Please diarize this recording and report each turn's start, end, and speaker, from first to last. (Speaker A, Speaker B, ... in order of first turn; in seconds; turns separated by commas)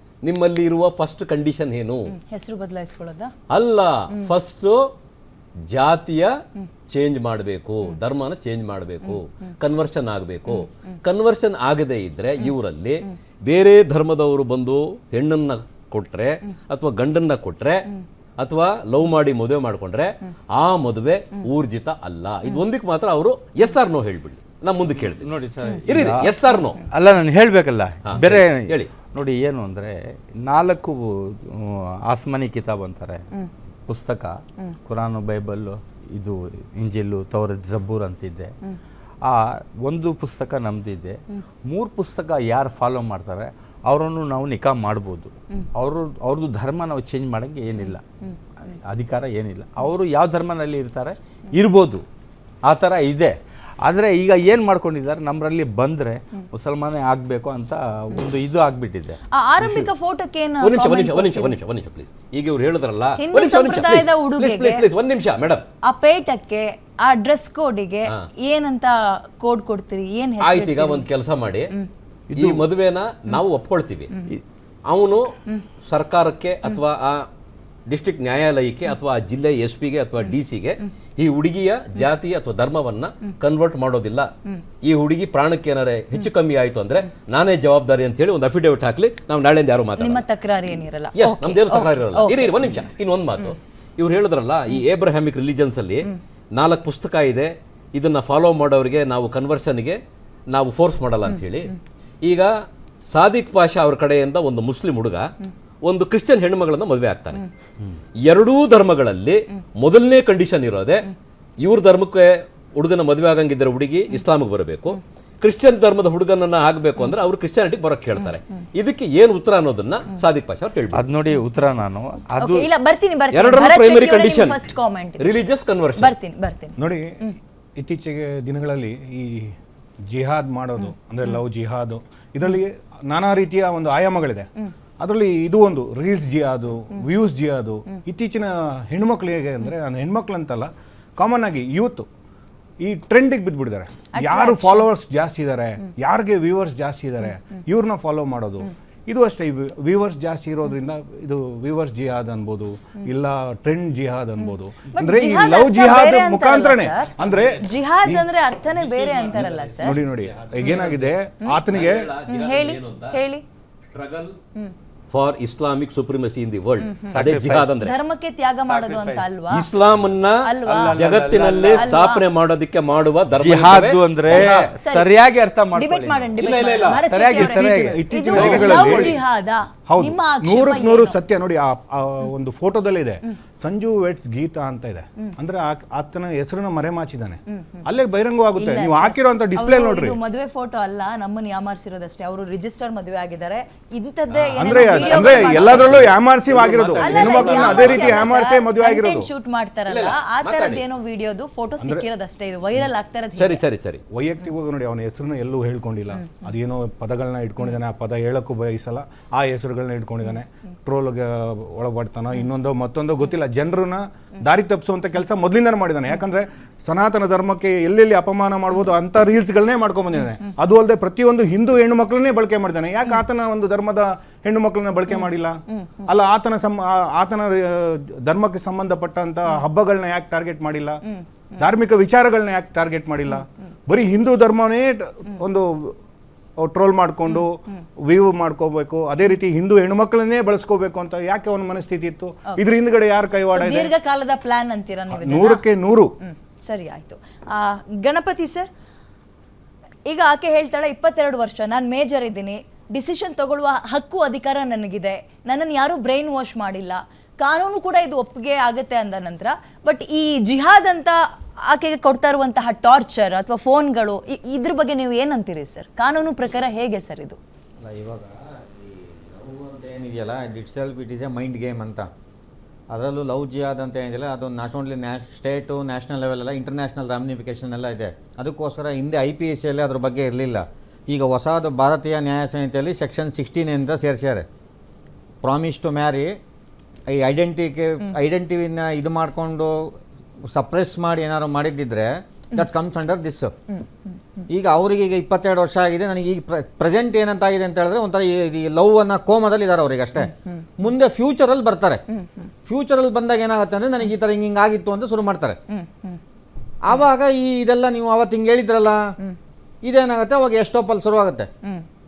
Speaker A: 0.2-2.1, Speaker B: 2.3-3.3, Speaker A: 3.5-4.8, Speaker A: 5.7-6.3, Speaker A: 6.9-17.9, Speaker A: 18.4-25.3, Speaker C: 24.9-33.3, Speaker A: 25.9-26.8, Speaker A: 28.1-28.9, Speaker C: 33.9-38.5, Speaker C: 39.2-52.1, Speaker C: 52.6-59.2, Speaker B: 59.3-61.6, Speaker A: 60.6-65.7, Speaker B: 63.2-64.8, Speaker B: 65.9-71.1, Speaker A: 70.4-71.7, Speaker C: 72.3-72.7, Speaker A: 72.3-74.2, Speaker A: 74.9-75.3, Speaker A: 75.9-77.3, Speaker A: 77.9-84.3, Speaker A: 84.8-90.2, Speaker B: 90.0-92.8, Speaker A: 91.2-100.0, Speaker A: 100.5-101.7, Speaker A: 102.2-102.5, Speaker A: 103.1-105.3, Speaker A: 105.8-107.4, Speaker A: 108.3-111.0, Speaker A: 111.6-121.0, Speaker C: 120.9-122.7, Speaker B: 122.4-125.4, Speaker A: 123.3-124.7, Speaker A: 125.2-126.1, Speaker B: 126.0-127.3, Speaker D: 126.8-127.2, Speaker D: 127.8-129.6, Speaker D: 130.1-134.5, Speaker D: 135.0-142.1, Speaker D: 142.8-158.3, Speaker B: 144.1-144.9, Speaker B: 154.9-160.0, Speaker C: 158.9-159.7, Speaker D: 159.8-162.1, Speaker A: 160.6-161.1, Speaker A: 161.7-163.2, Speaker B: 162.3-163.4, Speaker A: 163.9-164.4, Speaker A: 165.1-167.9, Speaker B: 166.8-167.3, Speaker C: 167.1-167.8, Speaker B: 167.8-169.7, Speaker C: 168.6-169.4, Speaker A: 169.5-174.2, Speaker B: 170.4-171.1, Speaker C: 170.7-172.0, Speaker B: 171.7-172.2, Speaker C: 173.3-176.5, Speaker B: 174.2-175.1, Speaker D: 174.3-174.7, Speaker B: 175.7-181.2, Speaker A: 176.4-177.1, Speaker C: 177.1-178.8, Speaker D: 177.3-179.2, Speaker D: 179.9-190.2, Speaker B: 188.6-196.1, Speaker A: 194.3-198.3, Speaker D: 194.6-199.3, Speaker B: 197.0-203.6, Speaker A: 199.9-200.8, Speaker D: 201.8-202.1, Speaker A: 203.4-204.0, Speaker D: 204.1-231.0, Speaker D: 231.6-235.9, Speaker D: 236.6-243.9, Speaker B: 243.5-245.7, Speaker D: 245.1-246.2, Speaker B: 246.2-248.7, Speaker B: 250.1-267.4, Speaker E: 267.8-272.1, Speaker E: 272.9-284.4, Speaker E: 285.4-286.4, Speaker E: 287.1-289.8, Speaker E: 290.5-293.5, Speaker E: 294.5-302.0, Speaker B: 300.2-300.6, Speaker B: 302.1-302.5, Speaker E: 302.7-305.6, Speaker B: 305.7-306.2, Speaker E: 306.8-309.1, Speaker E: 309.8-311.5